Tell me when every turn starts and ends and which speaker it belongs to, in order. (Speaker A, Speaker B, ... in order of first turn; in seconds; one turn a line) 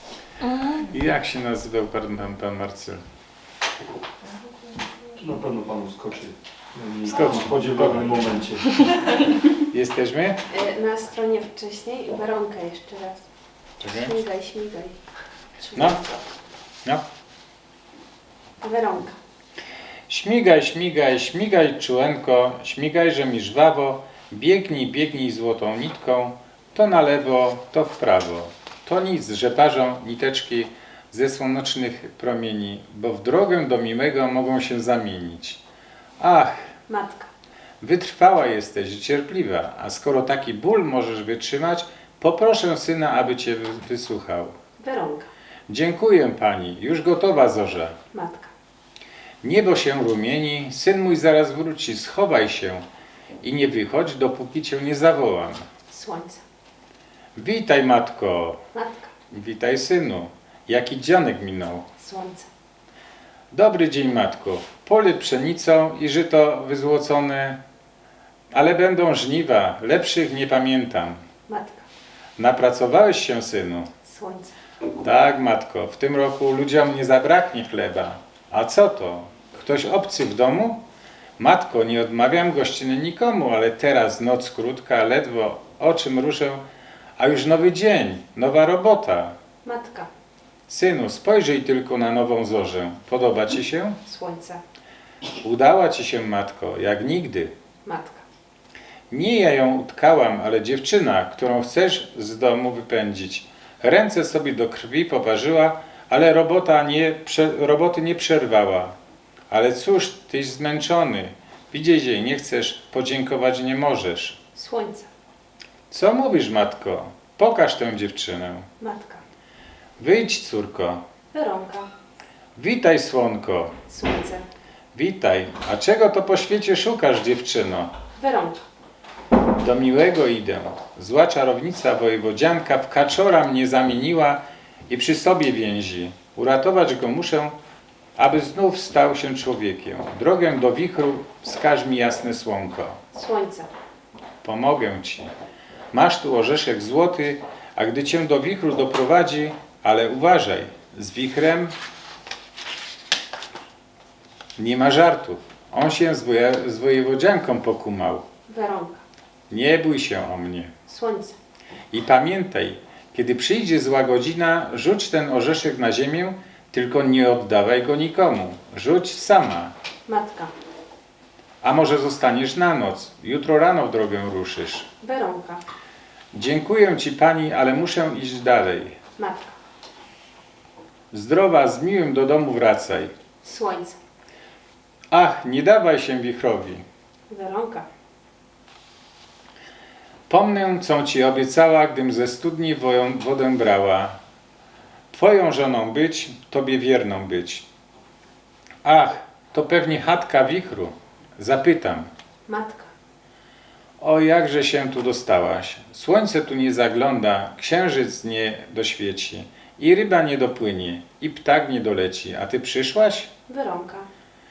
Speaker A: 0.4-3.0
Speaker B: 5.2-9.2
Speaker A: 7.1-8.2
Speaker A: 9.6-10.4
Speaker C: 10.5-13.2
Speaker A: 13.8-14.2
Speaker C: 13.9-15.0
Speaker C: 15.6-16.2
Speaker A: 15.7-16.0
Speaker C: 18.6-19.1
Speaker A: 20.1-35.6
Speaker A: 36.2-36.5
Speaker C: 36.9-37.3
Speaker A: 37.8-44.5
Speaker C: 44.8-45.3
Speaker A: 45.7-48.0
Speaker C: 48.1-48.5
Speaker A: 49.4-52.8
Speaker A: 53.4-55.6
Speaker C: 55.9-56.4
Speaker A: 57.4-58.6
Speaker C: 58.7-59.1
Speaker A: 59.3-61.8
Speaker C: 62.0-62.5
Speaker A: 63.5-67.6
Speaker A: 68.5-71.2
Speaker C: 71.5-71.8
Speaker A: 72.4-73.9
Speaker C: 74.0-74.5
Speaker A: 75.0-80.8
Speaker A: 81.4-86.6
Speaker A: 87.2-89.3
Speaker C: 89.6-90.1
Speaker A: 90.7-94.0
Speaker C: 94.0-94.6
Speaker A: 95.4-97.5
Speaker C: 97.8-98.2
Speaker A: 99.1-108.9
Speaker A: 109.5-114.4
Speaker C: 114.5-115.1
Speaker A: 115.9-118.7
Speaker C: 118.8-119.2
Speaker A: 120.0-121.0
Speaker C: 121.3-121.9
Speaker A: 122.5-123.8
Speaker C: 123.9-124.4
Speaker A: 124.9-127.9
Speaker C: 128.2-128.6
Speaker A: 129.6-137.5
Speaker A: 138.2-143.0
Speaker C: 143.1-143.7
Speaker A: 144.4-145.3
Speaker A: 145.9-151.7
Speaker A: 154.6-158.2
Speaker C: 158.5-159.0
Speaker A: 159.5-160.7
Speaker C: 160.9-161.3
Speaker A: 161.9-169.7
Speaker C: 170.1-170.5
Speaker A: 171.6-174.9
Speaker C: 175.0-175.6
Speaker A: 176.3-178.9
Speaker C: 179.2-179.5
Speaker A: 181.1-183.1
Speaker C: 183.4-184.0
Speaker A: 185.1-186.8
Speaker C: 187.3-187.8
Speaker A: 190.3-194.2
Speaker A: 195.1-197.7
Speaker A: 198.8-202.1
Speaker C: 202.5-202.9
Speaker A: 204.0-213.3
Speaker C: 213.5-214.1